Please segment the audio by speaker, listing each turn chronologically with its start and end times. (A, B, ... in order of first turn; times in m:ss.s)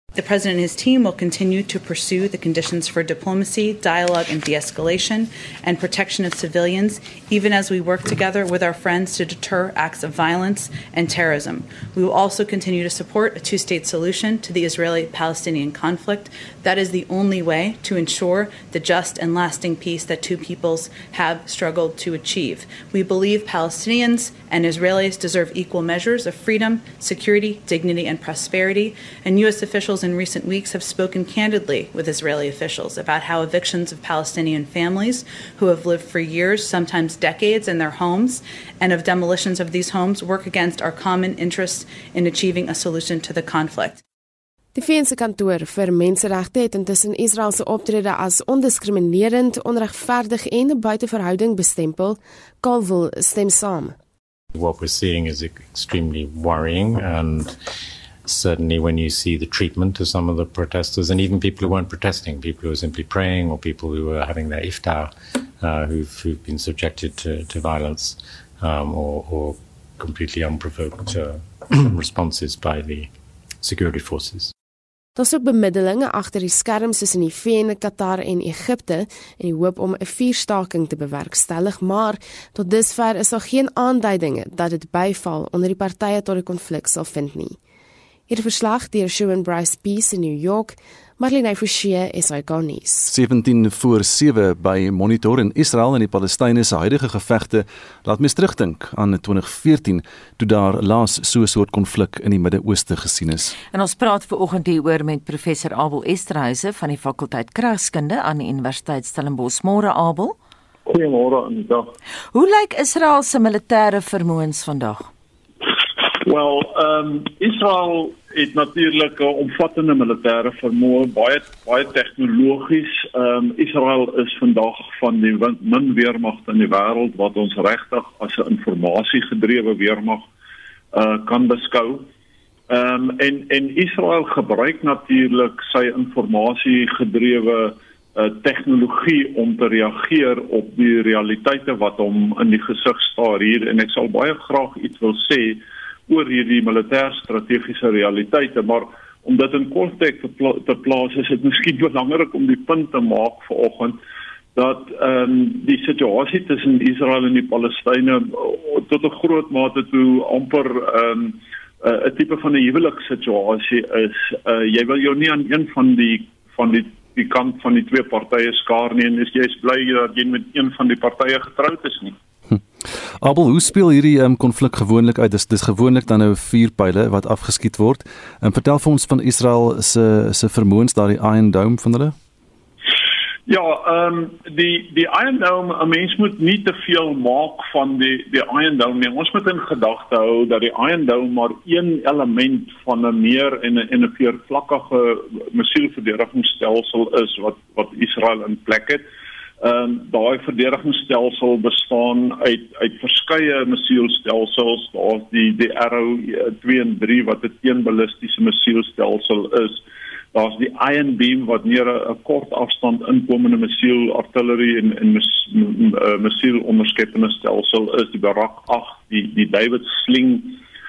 0:00.2-0:44.0 A
0:44.8-0:54.0 B
0:54.5-0:57.6 C
0:58.3-1:14.5 C
1:15.2-1:27.6 B
1:28.3-1:33.1 B
1:33.1-1:43.5 D
1:43.7-1:50.4 E
1:50.9-1:51.9 F
1:52.3-1:55.1 E
1:56.0-2:10.3 F
2:10.9-2:12.1 F
2:12.7-2:34.0 F
2:34.6-2:52.2 F
2:52.5-3:02.2 D
3:03.5-3:19.0 F
3:19.6-3:29.8 F
3:30.3-3:40.6 F